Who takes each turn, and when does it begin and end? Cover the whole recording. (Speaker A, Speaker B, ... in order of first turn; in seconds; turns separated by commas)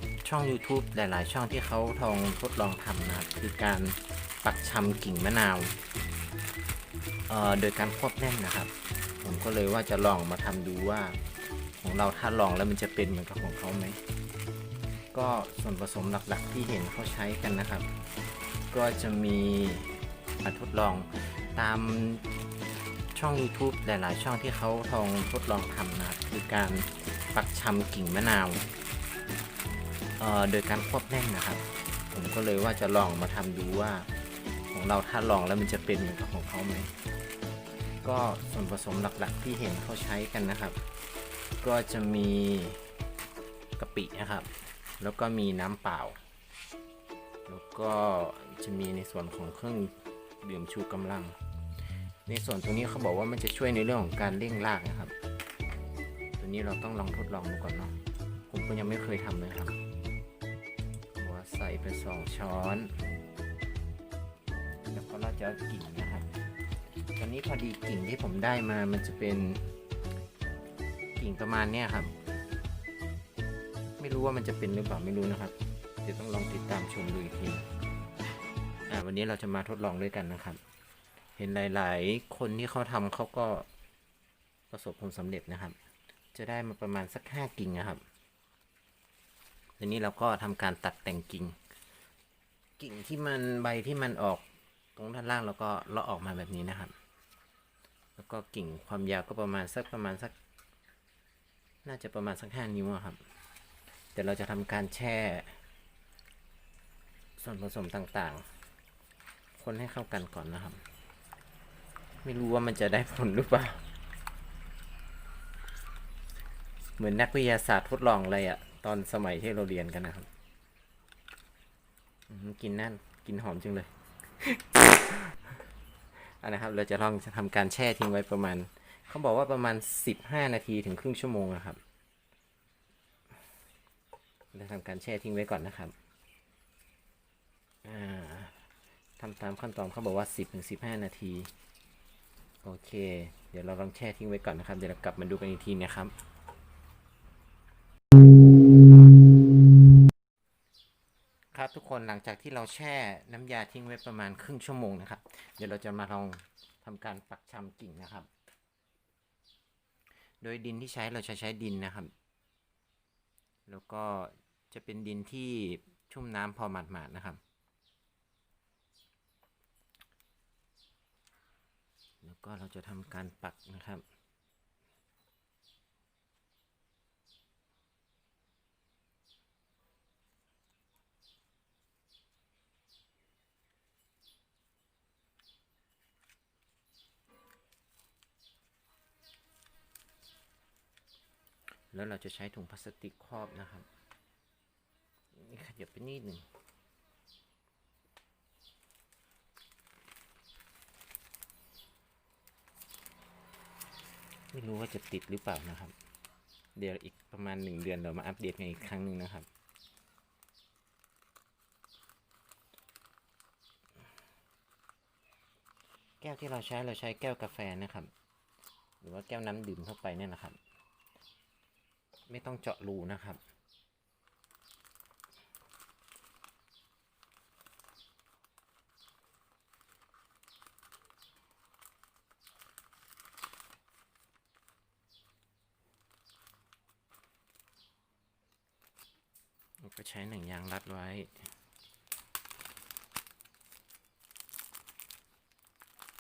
Speaker A: 0.2-5.8, Speaker A: 7.3-11.2, Speaker A: 11.8-14.0, Speaker A: 15.1-17.9, Speaker A: 18.7-22.3, Speaker A: 23.1-28.7, Speaker A: 30.2-34.1, Speaker A: 34.7-36.9, Speaker A: 38.0-40.8, Speaker A: 41.6-42.9, Speaker A: 43.8-46.2, Speaker A: 47.5-51.4, Speaker A: 52.3-55.1, Speaker A: 56.4-58.0, Speaker A: 58.5-59.8, Speaker A: 61.2-63.0, Speaker A: 64.9-66.3, Speaker A: 67.2-69.7, Speaker A: 71.2-72.1, Speaker A: 74.0-77.7, Speaker A: 78.9-80.6, Speaker A: 81.4-83.7, Speaker A: 84.7-85.8, Speaker A: 86.3-88.0, Speaker A: 89.8-91.6, Speaker A: 92.8-96.9, Speaker A: 98.2-100.3, Speaker A: 101.8-103.2, Speaker A: 104.1-105.6, Speaker A: 107.4-108.5, Speaker A: 109.6-110.8, Speaker A: 112.2-113.8, Speaker A: 117.0-120.3, Speaker A: 122.3-125.5, Speaker A: 126.2-131.8, Speaker A: 134.5-135.9, Speaker A: 137.8-138.7, Speaker A: 139.2-141.5, Speaker A: 142.6-146.1, Speaker A: 151.5-158.3, Speaker A: 160.4-162.1, Speaker A: 163.7-167.4, Speaker A: 172.2-174.0, Speaker A: 191.9-193.9, Speaker A: 195.3-196.4, Speaker A: 204.5-205.9, Speaker A: 206.8-209.5, Speaker A: 216.2-218.1, Speaker A: 219.0-220.6, Speaker A: 222.3-223.4, Speaker A: 239.8-241.3